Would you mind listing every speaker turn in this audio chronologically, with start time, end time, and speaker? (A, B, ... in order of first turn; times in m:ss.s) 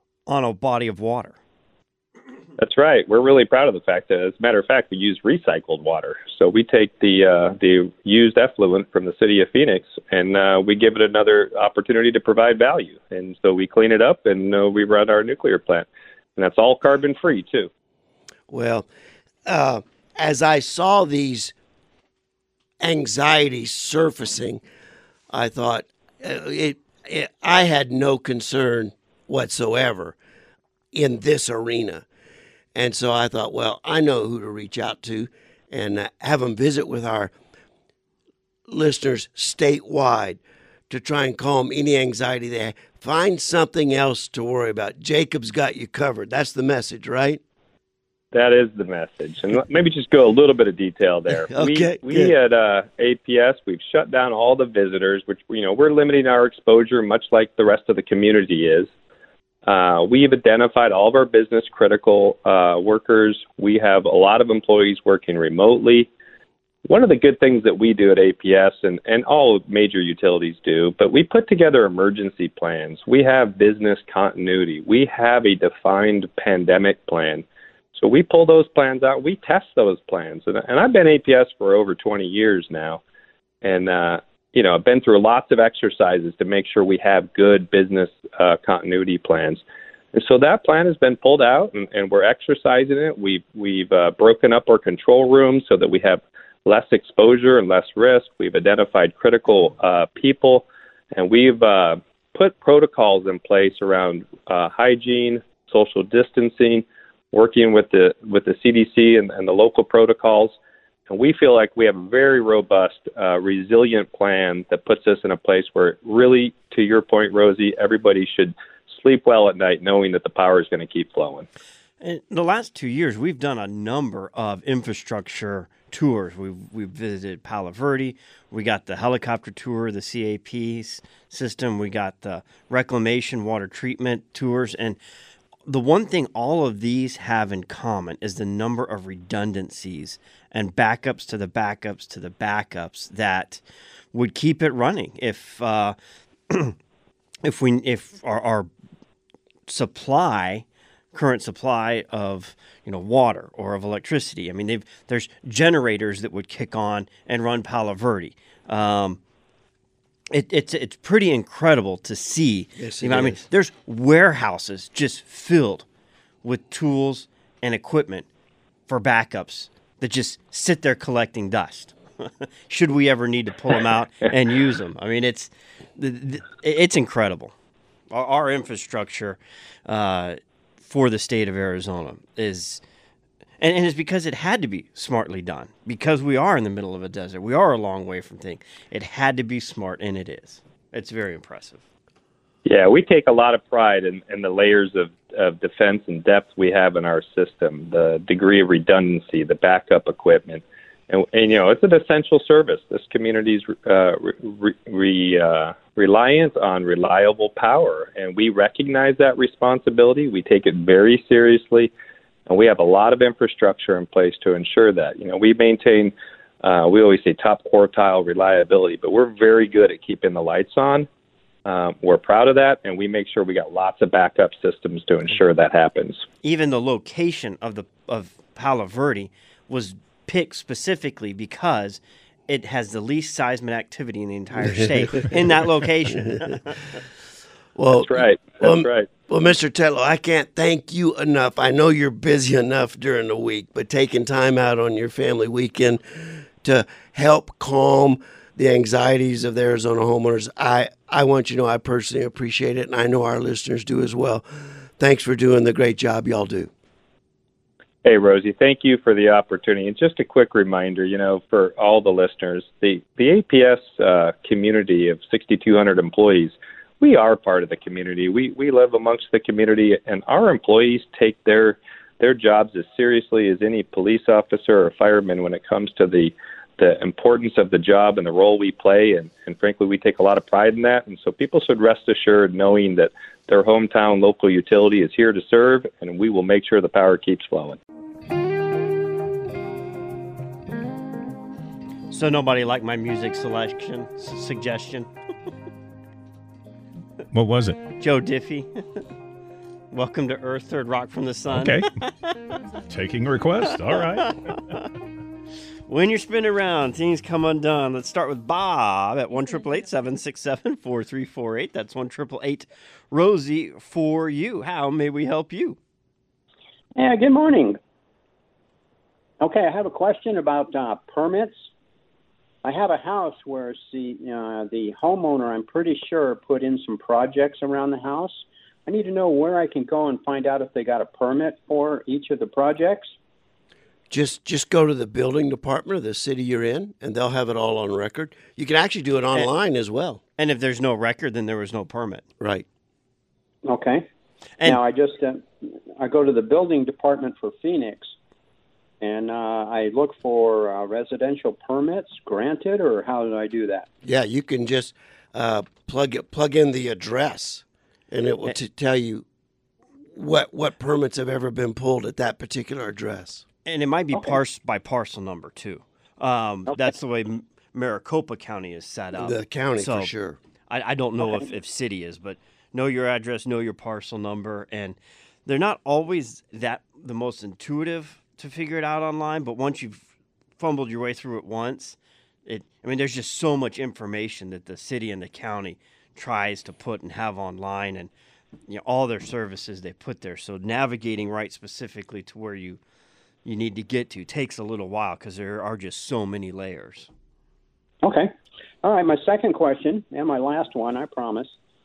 0:00.3-0:01.4 A
0:02.6-0:15.9 B
0:16.4-0:17.7 B
0:18.5-0:18.9 C
0:19.5-0:21.5 C
0:22.8-0:24.6 C
0:25.3-0:30.2 C
0:30.9-0:32.0 C
0:32.8-0:37.3 C
0:38.7-0:47.4 C
0:48.3-0:58.9 B
0:51.3-0:52.3 C
0:59.7-1:06.1 B
1:06.9-1:17.4 B
1:18.0-1:23.0 B
1:23.6-1:29.6 B
1:30.1-1:50.6 B
1:51.1-2:01.5 B
2:02.0-2:15.0 A
2:15.7-2:23.6 A
2:24.1-2:26.0 A
2:26.5-2:26.8 A
2:27.4-2:28.7 A
2:29.7-2:39.2 A
2:40.3-2:45.9 A
2:42.8-2:43.4 C
2:46.4-2:48.3 A
2:48.9-2:57.5 A
2:58.1-3:02.8 A
3:03.6-3:11.8 A
3:12.6-3:31.9 B
3:32.5-3:41.1 B
3:41.7-3:46.2 B
3:46.4-3:56.8 A
3:54.6-3:55.4 C
3:56.2-3:56.5 C
3:57.8-4:14.4 C
3:58.0-3:59.1 B
4:15.0-4:16.7 C
4:18.0-4:47.8 B
4:52.1-4:55.1 A
4:57.3-4:57.8 D
4:58.0-4:58.7 A
4:59.9-5:02.1 A
5:01.5-5:01.9 D
5:02.9-5:04.4 D
5:04.2-5:04.8 A
5:05.9-5:15.8 A
5:17.0-5:17.8 E
5:19.4-5:21.7 E
5:22.6-5:33.1 E
5:34.1-5:40.2 C
5:40.4-5:42.2 A
5:42.4-5:42.7 C
5:43.7-5:44.1 E
5:44.6-5:45.5 E
5:46.0-5:48.1 E
5:49.0-5:53.9 E
5:54.0-5:59.2 C
6:00.1-6:03.5 C
6:03.6-6:10.1 A
6:04.1-6:04.4 E
6:06.7-6:07.0 E
6:09.2-6:10.4 C
6:10.7-6:20.0 A
6:11.2-6:11.5 E
6:20.6-6:28.1 A
6:28.7-6:32.8 A
6:33.4-6:37.1 A
6:38.0-6:38.3 E
6:38.8-6:41.5 E